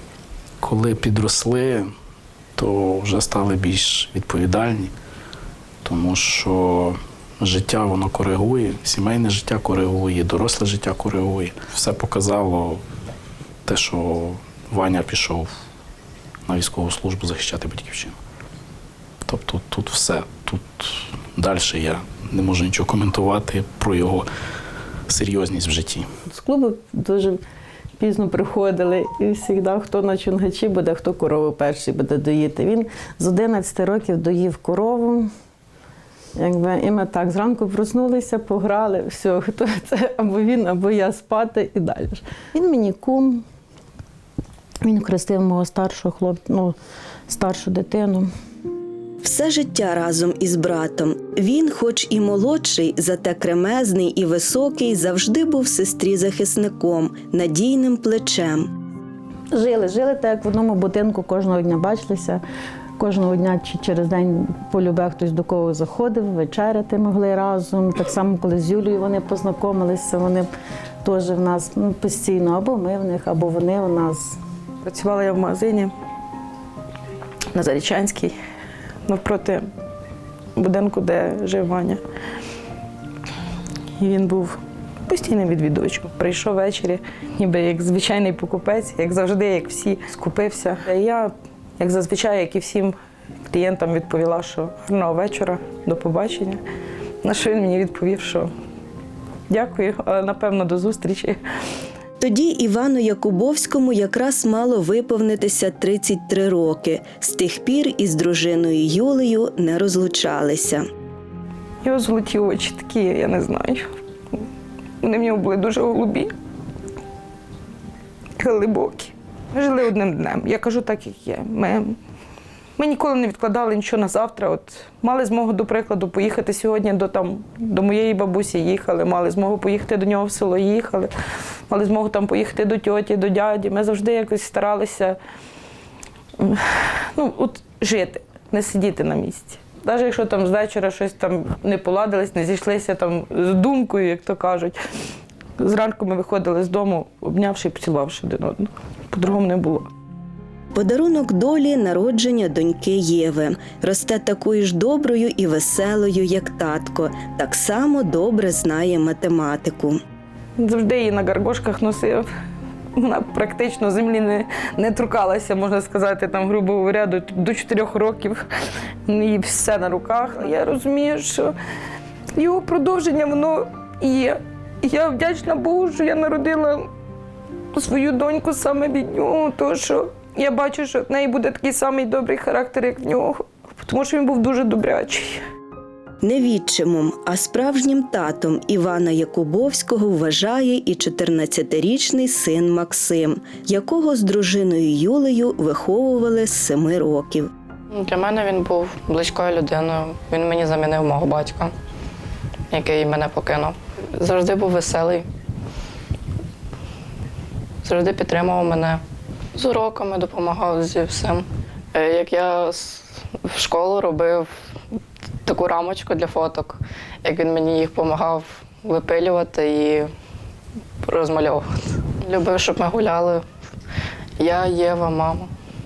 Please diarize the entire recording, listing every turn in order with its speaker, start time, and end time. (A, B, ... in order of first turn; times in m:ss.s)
0:00.6-0:01.9 A
0:02.6-0:04.9 A
0:05.8-0:12.8 A
0:13.7-0:15.5 A
0:16.5-0:18.2 A
0:19.2-0:24.3 A
0:25.1-0:26.1 A
0:26.3-0:27.4 B
0:28.0-0:35.3 B
0:36.4-0:43.4 B
0:44.8-0:46.8 B
0:47.3-0:48.3 B
0:49.2-0:58.7 C
0:59.5-1:02.4 B
1:03.0-1:10.4 B
1:11.0-1:14.4 B
1:14.8-1:15.9 D
1:17.5-1:18.3 D
1:19.1-1:19.6 D
1:20.6-1:22.0 D
1:24.0-1:32.9 D
1:33.5-1:36.6 D
1:37.2-1:38.5 D
1:39.5-1:41.4 D
1:42.2-1:50.8 C
1:51.8-1:53.8 D
1:55.0-1:56.3 D
1:58.4-2:02.0 D
2:02.8-2:11.1 D
2:11.7-2:15.2 D
2:16.4-2:24.8 D
2:25.6-2:29.9 D
2:30.8-2:40.0 C
2:40.6-2:42.2 D
2:43.0-2:48.4 D
2:49.1-2:51.5 D
2:52.4-2:56.9 D
2:57.8-3:05.4 D
3:06.2-3:17.5 C
3:17.9-3:21.7 E
3:22.7-3:25.2 E
3:27.8-3:29.0 E
3:29.6-3:33.0 E
3:33.5-3:34.5 E
3:35.4-3:40.1 E
3:41.0-3:41.6 E
3:42.2-3:43.4 E
3:44.4-3:45.5 E